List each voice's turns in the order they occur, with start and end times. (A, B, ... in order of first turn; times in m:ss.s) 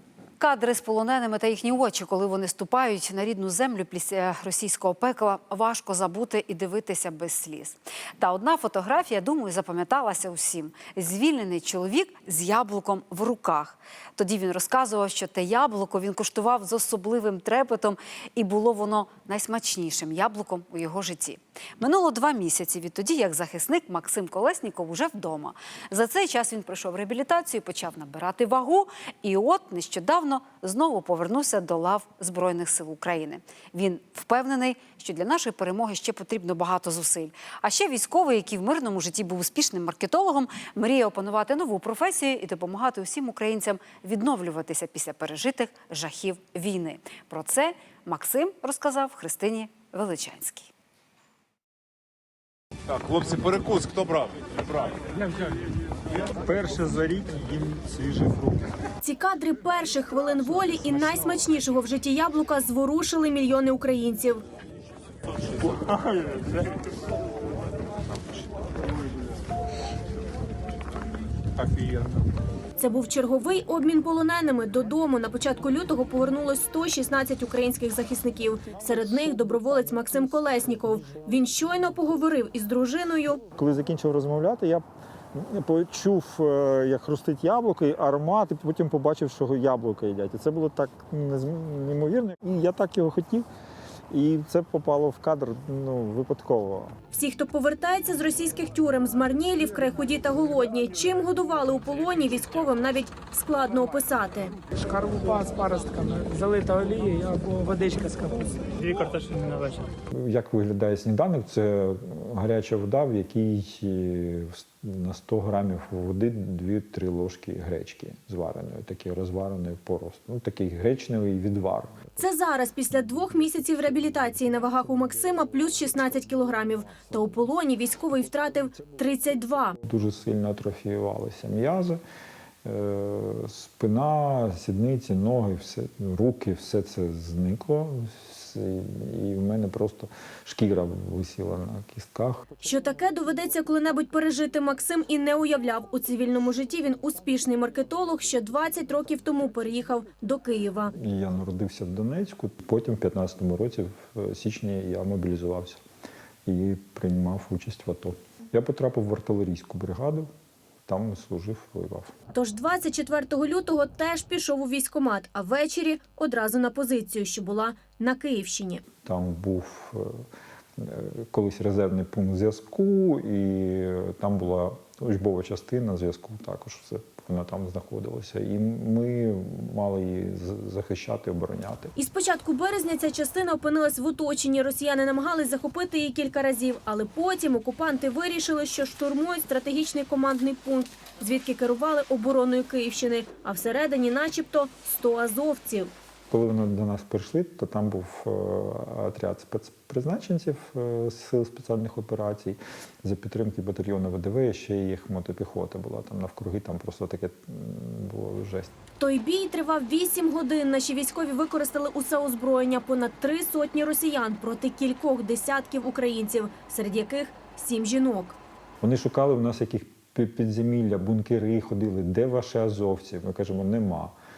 0:00.4-0:50.7 A
0:52.9-0:54.9 B
0:56.3-0:58.7 C
0:59.0-1:04.4 D
1:12.8-1:23.4 D
1:23.5-1:33.4 C
1:34.1-1:36.9 C
1:37.1-1:44.6 D
1:44.7-1:49.9 E
1:50.1-2:02.1 C
2:02.2-2:09.8 D
2:09.8-2:12.0 C
2:12.6-2:22.5 C
2:22.6-2:30.9 D
2:30.9-2:35.8 C
2:36.4-2:40.3 C
2:40.9-2:42.1 C
2:42.3-2:48.8 D
2:49.0-2:50.2 C
2:50.8-3:01.9 C
3:02.0-3:15.9 D
3:16.3-3:28.7 C
3:29.0-3:38.4 D
3:38.8-3:44.1 C